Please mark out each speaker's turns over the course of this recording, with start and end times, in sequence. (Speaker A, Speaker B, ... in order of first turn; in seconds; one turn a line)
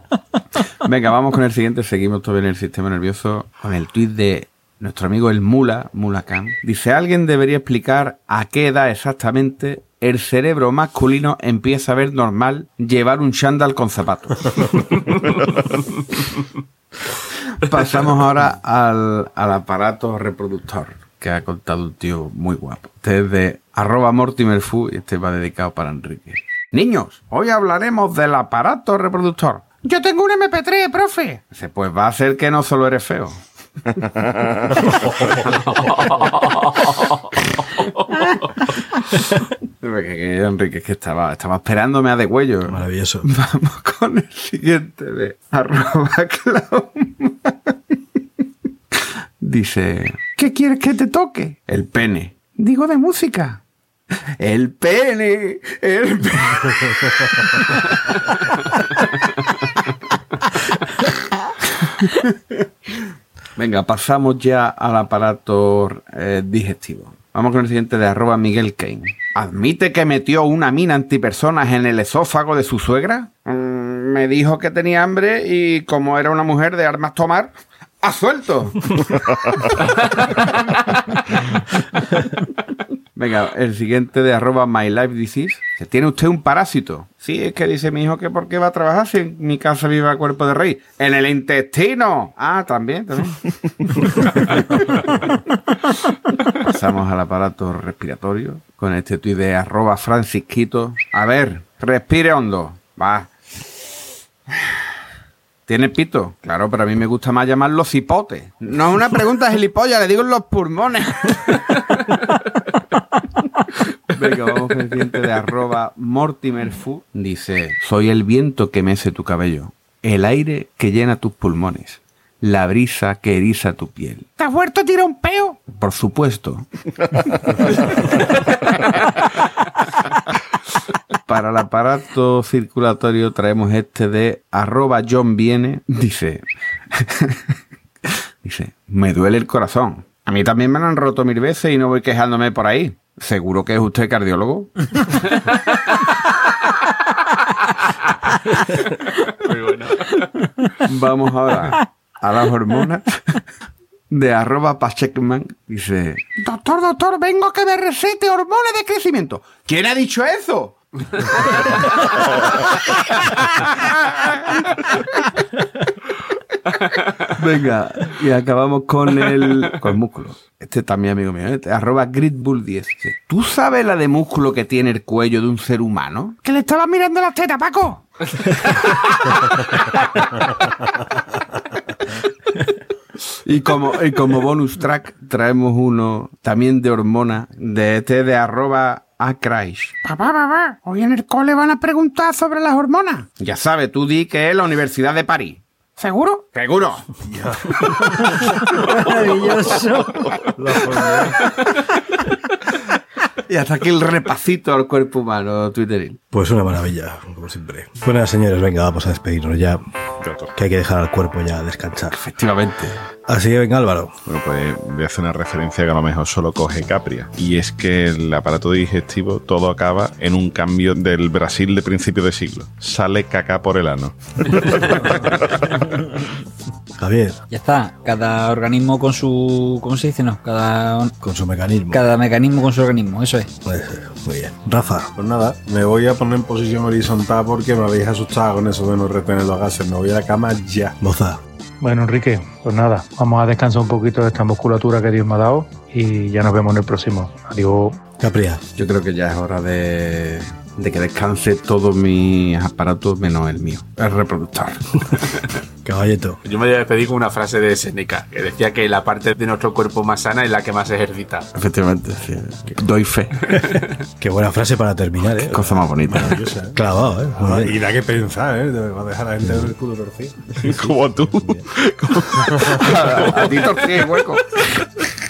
Speaker A: 0.8-15.2
Speaker A: 17.5-33.4
Speaker A: 34.6-36.5
Speaker A: 37.6-38.4
Speaker A: 39.0-48.0
Speaker B: 42.6-43.3
Speaker A: 48.9-53.6
Speaker A: 54.4-59.6
Speaker A: 61.8-81.5
Speaker A: 83.2-95.3
Speaker A: 96.5-103.8
Speaker A: 105.7-112.2
Speaker A: 114.1-126.7
Speaker A: 127.4-128.1
Speaker A: 131.3-137.5
Speaker A: 138.4-145.1
Speaker C: 149.3-150.3
Speaker A: 150.8-153.4
Speaker A: 154.1-165.1
Speaker A: 167.2-180.3
Speaker A: 183.4-197.1
Speaker B: 197.2-197.9
Speaker D: 198.1-201.0
Speaker B: 200.4-201.4
Speaker A: 203.5-206.2
Speaker B: 206.3-209.8
Speaker E: 210.2-210.5
Speaker B: 210.6-212.2
Speaker A: 212.1-213.0
Speaker B: 213.3-214.2
Speaker E: 214.3-225.6
Speaker B: 227.0-227.4
Speaker D: 227.5-231.2
Speaker B: 231.2-232.0
Speaker D: 231.9-233.5
Speaker B: 233.6-235.1
Speaker F: 235.2-241.0
Speaker B: 241.0-241.4
Speaker G: 241.8-248.0
Speaker B: 248.2-248.6
Speaker A: 248.8-255.4
Speaker B: 255.8-256.4
Speaker C: 256.4-261.5
Speaker A: 261.6-263.7
Speaker B: 264.2-266.0
Speaker A: 265.4-266.4
Speaker F: 266.1-266.8
Speaker B: 266.7-267.8
Speaker F: 267.4-270.7
Speaker B: 269.4-269.7
Speaker E: 270.5-273.7
Speaker A: 272.8-274.8